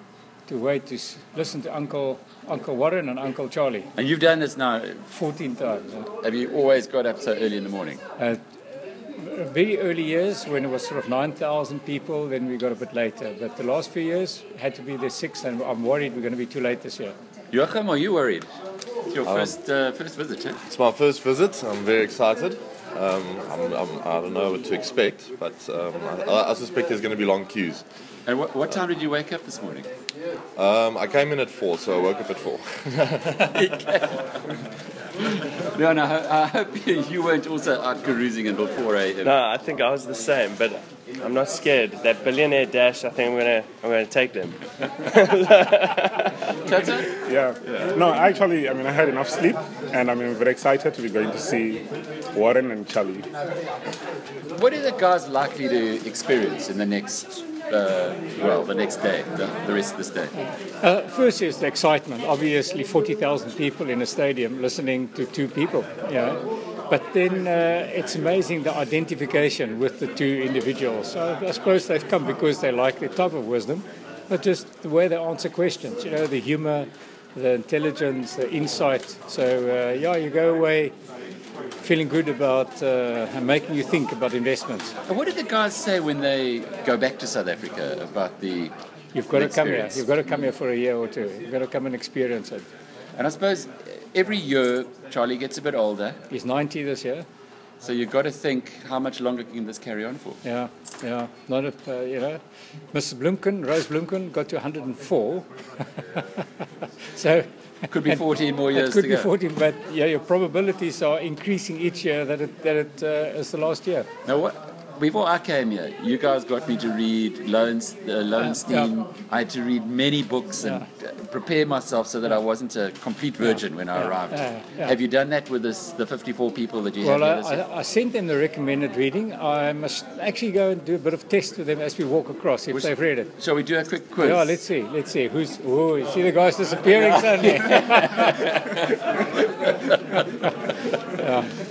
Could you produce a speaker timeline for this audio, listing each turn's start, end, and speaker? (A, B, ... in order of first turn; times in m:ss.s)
0:00.5-0:03.9 A
0:04.0-0:05.0 B
0:05.1-0:06.1 A
0:06.2-0:08.0 B
0:09.2-0:17.1 A
0:17.5-0:18.5 B
0:19.1-0:20.6 B
0:19.2-0:19.5 C
0:20.7-0:27.8 C
0:28.2-0:29.9 B
0:30.6-0:33.6 C
0:33.5-0:34.2 B
0:35.6-0:39.4 B
0:39.2-0:46.3 D
0:46.6-0:47.2 B
0:47.3-0:51.8 E
0:52.3-0:53.2 E
0:54.5-1:00.3 B
1:00.8-1:20.9 A
1:21.8-1:24.9 A
1:25.1-1:28.7 B
1:29.1-1:32.6 A
1:29.3-1:30.4 B
1:33.2-1:36.2 B
1:36.3-1:37.2 A
1:37.8-1:40.4 B
1:40.4-1:42.4 A
1:42.9-1:45.4 A
1:47.1-1:54.1 A
1:47.9-1:49.3 B
1:54.2-2:07.6 B
1:58.4-1:58.9 A
2:03.5-2:04.9 A
2:07.0-2:13.3 A
2:12.7-2:14.5 B
2:14.2-2:18.5 A
2:17.6-2:18.8 B
2:21.1-2:21.5 A